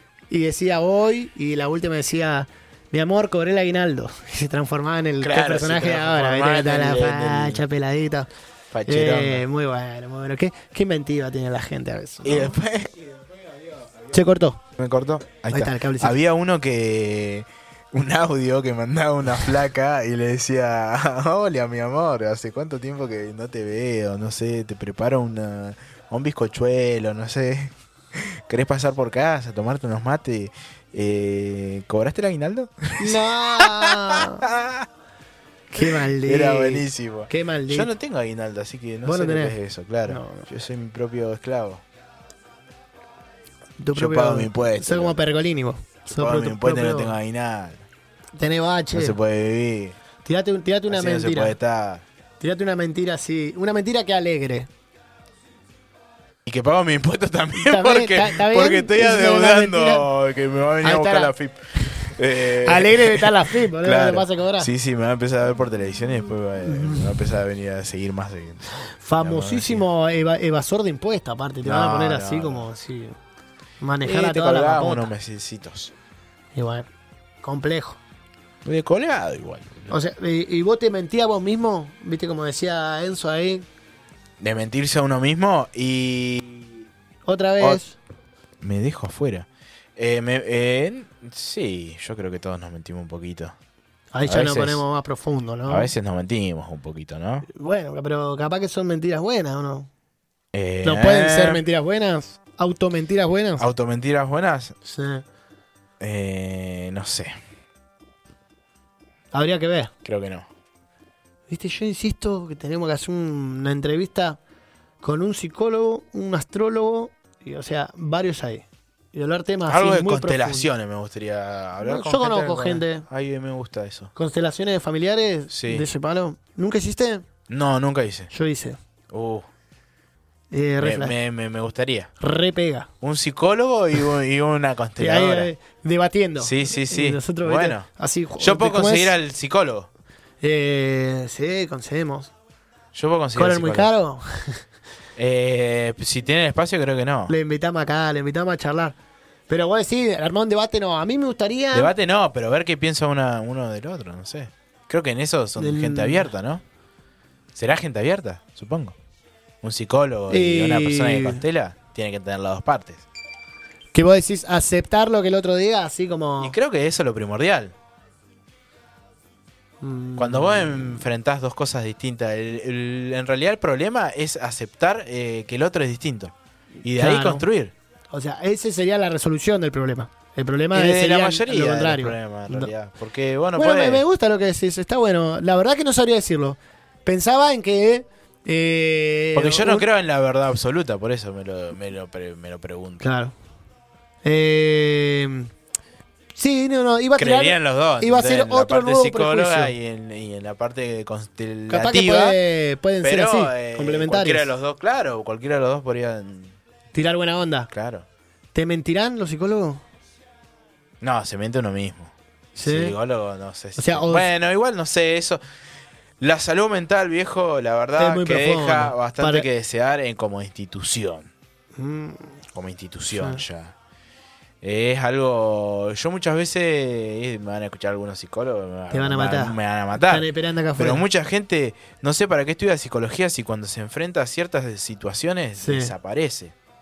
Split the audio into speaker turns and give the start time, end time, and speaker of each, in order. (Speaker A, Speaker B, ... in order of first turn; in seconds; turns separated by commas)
Speaker A: 0.3-8.3, Speaker B: 5.2-7.6, Speaker B: 8.7-9.4, Speaker A: 8.9-12.6, Speaker B: 12.2-13.8, Speaker A: 14.1-14.6, Speaker B: 14.8-34.9, Speaker A: 15.5-16.2, Speaker A: 33.0-34.5, Speaker A: 35.7-37.9, Speaker B: 35.8-41.8, Speaker A: 39.0-39.6, Speaker A: 40.1-40.5, Speaker A: 43.8-47.1, Speaker B: 43.9-45.2, Speaker B: 46.2-47.9, Speaker A: 48.4-49.2, Speaker B: 48.9-50.0, Speaker A: 50.2-51.6, Speaker B: 50.9-52.0, Speaker A: 52.4-54.7, Speaker B: 56.5-69.9, Speaker A: 57.5-60.1, Speaker A: 60.8-64.7, Speaker A: 66.7-67.2, Speaker A: 69.0-73.2, Speaker B: 71.6-72.7, Speaker A: 73.8-75.1, Speaker B: 74.0-75.9, Speaker A: 76.5-76.9, Speaker A: 77.4-78.0, Speaker B: 78.6-79.9, Speaker A: 79.9-83.7, Speaker B: 84.4-86.9, Speaker A: 87.3-88.0, Speaker B: 88.6-93.5, Speaker A: 94.1-95.9, Speaker B: 94.2-94.8, Speaker B: 95.7-97.5, Speaker A: 97.5-99.9, Speaker B: 100.5-101.6, Speaker A: 100.8-103.6, Speaker B: 103.6-104.8, Speaker A: 104.9-105.2, Speaker B: 106.0-107.3, Speaker A: 109.3-109.9, Speaker B: 110.0-110.5, Speaker A: 111.5-114.4, Speaker A: 115.0-120.7, Speaker B: 119.7-124.1, Speaker A: 121.8-123.0, Speaker A: 124.2-127.3, Speaker B: 125.5-125.9, Speaker B: 127.5-128.3, Speaker A: 128.3-128.8, Speaker B: 129.1-129.5, Speaker A: 130.5-131.2, Speaker B: 130.8-132.1, Speaker A: 132.2-132.9, Speaker B: 133.0-135.5, Speaker A: 135.0-139.2, Speaker B: 136.4-137.9, Speaker B: 138.4-139.9, Speaker A: 140.4-142.3, Speaker B: 142.9-143.9, Speaker A: 143.3-144.6, Speaker B: 145.2-147.3, Speaker A: 147.3-149.0, Speaker A: 149.5-151.9, Speaker B: 151.7-156.6, Speaker A: 155.6-156.3, Speaker B: 157.5-159.0, Speaker B: 159.6-163.1, Speaker A: 160.3-161.4, Speaker A: 163.9-166.6, Speaker B: 166.4-167.8, Speaker A: 169.8-171.0, Speaker B: 170.2-177.7, Speaker A: 176.8-177.5, Speaker A: 178.1-182.7, Speaker B: 180.7-184.0, Speaker A: 183.6-189.9, Speaker B: 189.3-193.0, Speaker A: 193.0-193.3, Speaker A: 194.2-195.5, Speaker A: 196.3-199.7, Speaker B: 197.2-202.4, Speaker A: 201.7-204.5, Speaker B: 203.0-206.6, Speaker A: 206.9-207.7, Speaker B: 207.7-208.1, Speaker A: 208.6-209.8, Speaker B: 211.0-212.1, Speaker A: 212.6-212.9, Speaker B: 212.7-215.4, Speaker A: 213.8-214.3, Speaker B: 216.2-221.3, Speaker A: 218.0-219.5, Speaker A: 221.8-222.4, Speaker B: 222.5-223.8, Speaker A: 223.1-223.4, Speaker B: 224.6-236.5, Speaker A: 228.9-231.0, Speaker A: 235.6-235.9